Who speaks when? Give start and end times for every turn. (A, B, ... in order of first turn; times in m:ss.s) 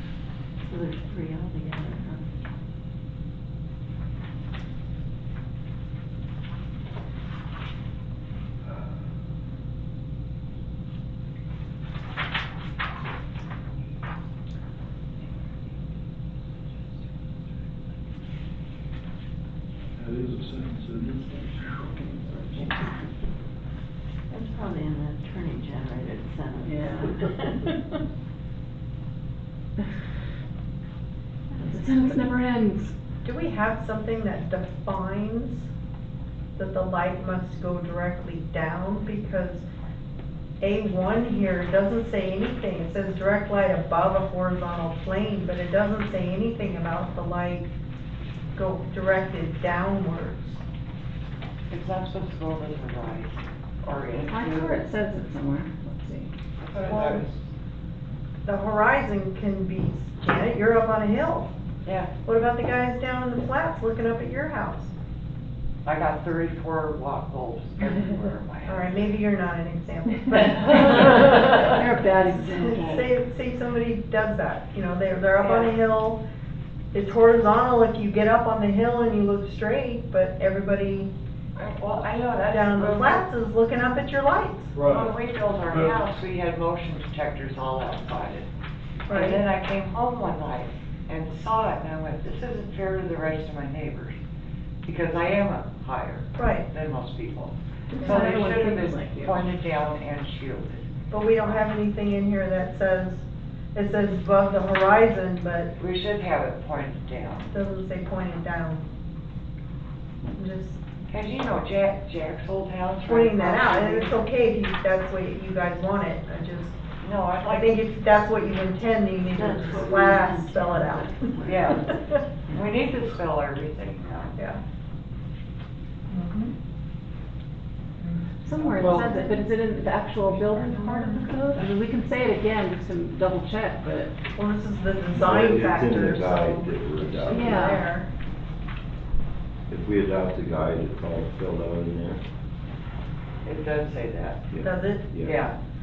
0:00.7-0:02.4 A
0:20.0-0:21.8 B
0:21.1-0:23.1 C
0:24.3-0:27.7 A
0:26.6-0:27.3 C
0:31.5-0:32.2 A
0:31.6-0:32.9 C
0:33.2-0:35.7 D
0:36.6-0:39.6 D
0:40.6-0:47.7 D
0:48.6-0:50.6 D
0:51.7-0:54.8 E
0:54.3-0:56.3 C
0:56.6-0:57.4 E
0:56.8-0:57.2 D
0:58.4-1:01.5 D
1:01.8-1:02.1 E
1:02.2-1:04.9 D
1:05.8-1:09.1 E
1:08.7-1:16.2 D
1:10.3-1:11.5 E
1:10.6-1:13.1 C
1:15.4-1:15.7 E
1:16.9-1:21.1 D
1:21.6-1:23.2 E
1:22.5-1:24.7 D
1:24.7-1:25.1 B
1:24.8-1:28.5 E
1:25.7-1:26.0 B
1:29.1-1:29.4 D
1:29.1-1:34.2 E
1:34.8-1:40.9 E
1:36.4-1:36.7 D
1:37.9-1:39.5 C
1:38.0-1:38.3 D
1:41.1-1:45.7 D
1:45.8-1:47.5 E
1:47.5-1:48.8 D
1:50.4-1:50.8 D
1:51.1-1:54.2 E
1:53.0-1:56.8 D
1:57.0-1:57.8 E
1:57.5-2:02.0 D
1:59.2-2:02.1 A
2:01.4-2:01.9 E
2:02.5-2:04.4 E
2:04.4-2:04.6 D
2:06.1-2:06.5 D
2:08.0-2:09.4 D
2:08.4-2:14.1 C
2:10.4-2:11.4 D
2:14.3-2:18.1 D
2:15.1-2:17.6 F
2:17.3-2:17.9 C
2:19.7-2:22.2 F
2:23.4-2:24.5 E
2:24.5-2:25.4 F
2:24.6-2:25.1 D
2:25.2-2:25.5 E